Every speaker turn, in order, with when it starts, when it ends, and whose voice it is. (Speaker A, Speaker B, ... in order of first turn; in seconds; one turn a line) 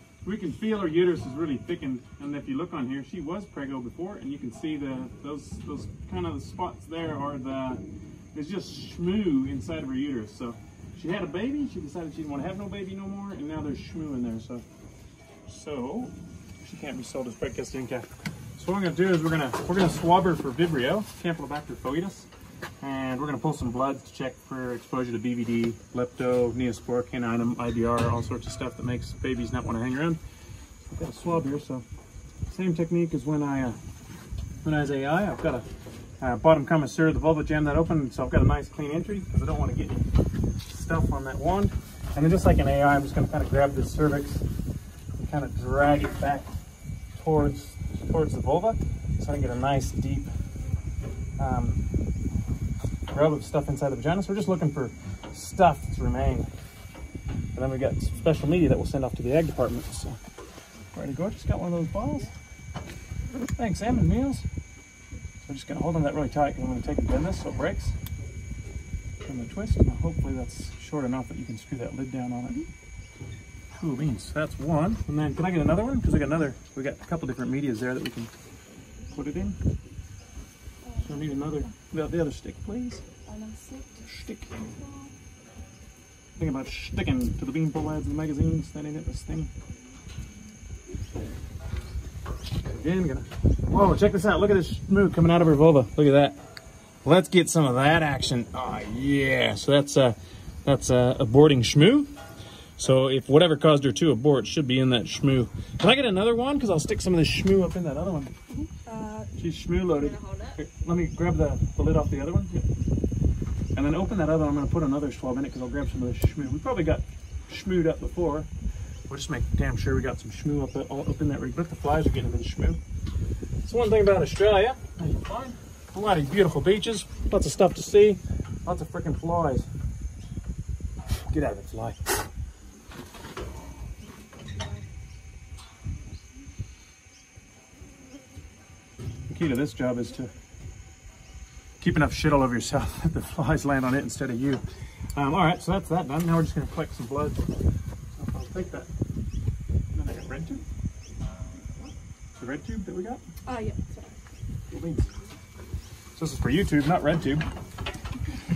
Speaker A: 0.2-14.7
Speaker A: 15.5-22.3
Speaker A: 22.8-30.2
Speaker A: 30.9-31.9
Speaker A: 32.5-33.8
Speaker A: 34.6-35.6
Speaker A: 36.2-40.1
Speaker A: 40.7-44.5
Speaker A: 45.2-46.5
Speaker A: 47.2-50.3
Speaker A: 51.4-51.8
Speaker A: 53.1-56.5
Speaker A: 57.5-60.2
Speaker A: 60.9-62.3
Speaker A: 63.5-64.5
Speaker A: 65.4-68.0
Speaker A: 69.2-72.7
Speaker A: 73.8-78.3
Speaker A: 79.1-79.6
Speaker A: 81.0-83.0
Speaker B: 83.3-85.1
Speaker A: 84.0-84.5
Speaker A: 86.4-89.5
Speaker A: 92.6-96.4
Speaker A: 97.0-102.1
Speaker A: 102.8-108.3
Speaker B: 108.6-109.3
Speaker A: 109.4-112.7
Speaker A: 113.7-118.5
Speaker A: 119.1-122.8
Speaker A: 123.7-129.7
Speaker A: 131.3-132.2
Speaker A: 139.3-140.3
Speaker A: 141.8-144.6
Speaker A: 145.2-147.5
Speaker A: 148.2-148.9
Speaker A: 149.9-150.6
Speaker A: 152.4-153.2
Speaker B: 153.5-154.1
Speaker A: 154.7-155.1
Speaker A: 156.2-157.4